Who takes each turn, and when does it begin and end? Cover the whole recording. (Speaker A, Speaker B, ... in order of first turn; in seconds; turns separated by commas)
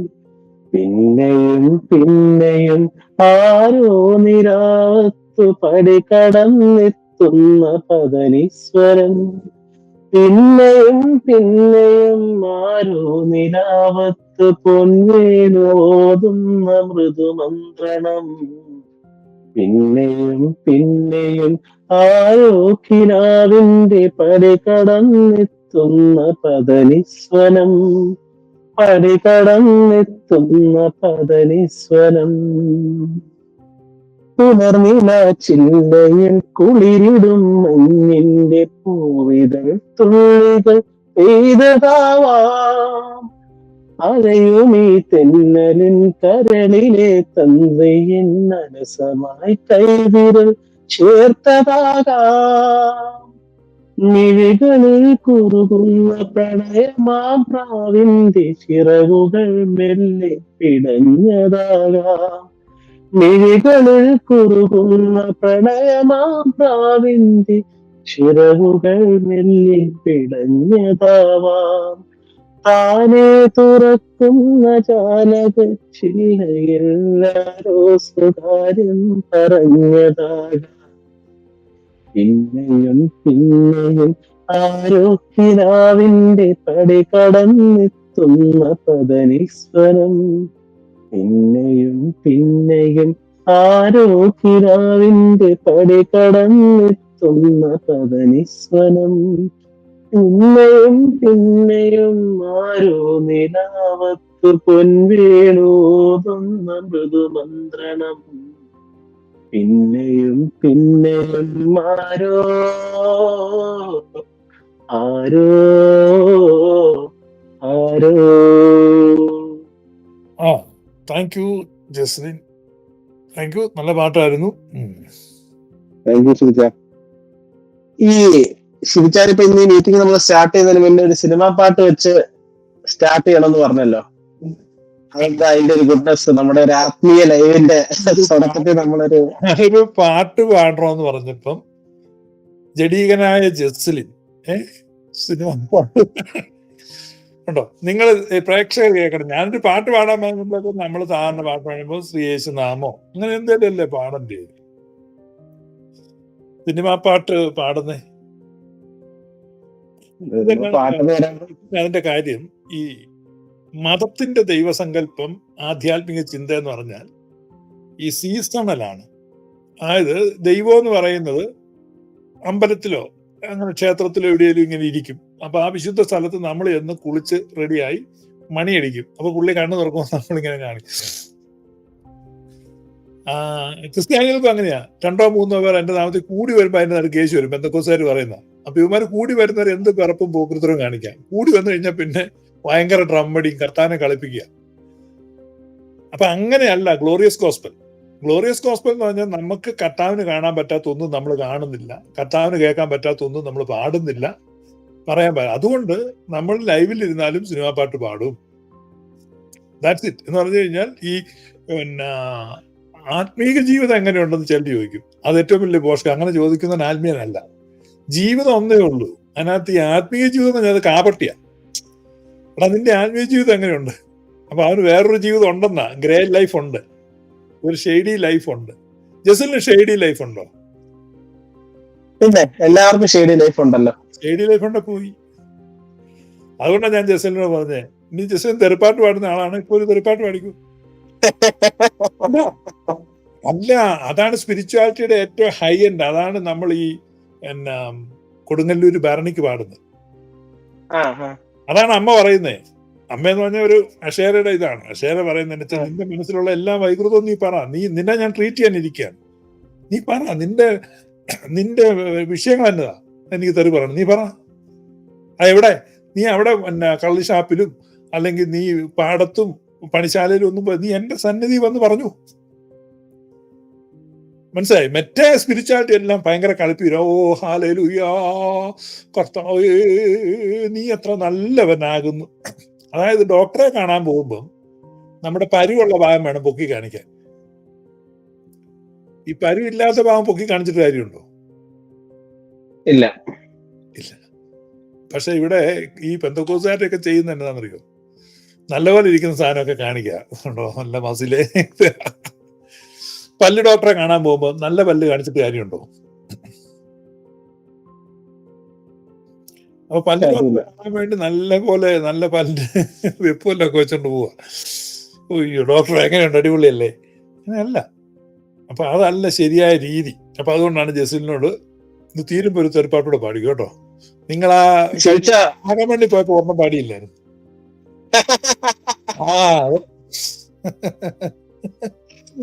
Speaker A: 0.8-9.2, Speaker A: 10.2-18.3, Speaker A: 19.6-27.7, Speaker A: 28.8-33.0, Speaker A: 34.4-43.1, Speaker A: 44.1-53.0, Speaker A: 54.1-62.4, Speaker A: 63.2-67.6, Speaker A: 68.1-72.0, Speaker A: 72.7-80.7, Speaker A: 82.2-90.1, Speaker A: 91.2-99.1, Speaker A: 100.2-108.2, Speaker A: 109.5-114.0, Speaker A: 115.0-116.8, Speaker A: 117.7-119.0, Speaker B: 120.4-122.4, Speaker B: 123.4-125.0, Speaker A: 126.1-126.7, Speaker A: 128.9-132.1, Speaker A: 132.9-134.0, Speaker A: 135.2-139.2, Speaker B: 138.4-138.7, Speaker B: 139.4-141.6, Speaker B: 142.8-144.6, Speaker B: 145.2-146.4, Speaker B: 147.5-154.5, Speaker B: 156.7-158.0, Speaker A: 160.3-161.4, Speaker B: 160.4-161.1, Speaker B: 161.7-162.9, Speaker B: 163.8-167.0, Speaker B: 168.0-169.0, Speaker B: 169.9-171.4, Speaker B: 172.5-178.0, Speaker B: 178.5-181.2, Speaker B: 183.3-194.4, Speaker B: 196.1-204.3, Speaker B: 205.1-208.3, Speaker B: 209.8-211.2, Speaker B: 211.7-212.6, Speaker B: 213.1-217.4, Speaker B: 218.1-221.3, Speaker B: 222.6-223.9, Speaker B: 224.5-226.8, Speaker B: 227.6-228.7, Speaker B: 229.3-230.5, Speaker A: 232.2-233.9, Speaker B: 234.2-235.1, Speaker B: 236.6-240.5, Speaker A: 241.5-241.9, Speaker B: 243.5-246.9, Speaker B: 247.5-249.8, Speaker A: 251.0-251.3, Speaker B: 251.7-252.6, Speaker B: 253.1-259.1, Speaker B: 259.9-260.7, Speaker B: 261.5-264.3, Speaker B: 265.4-272.1, Speaker B: 274.5-282.3, Speaker B: 282.9-284.4, Speaker B: 285.2-287.1, Speaker B: 289.3-291.2, Speaker B: 295.1-297.8, Speaker B: 298.7-302.1, Speaker B: 303.4-305.8, Speaker B: 309.9-312.6, Speaker A: 310.2-310.6, Speaker B: 313.2-316.9, Speaker B: 317.5-317.8, Speaker B: 318.7-321.5, Speaker B: 322.1-323.7, Speaker B: 324.3-327.1, Speaker A: 325.0-325.4, Speaker B: 329.2-331.9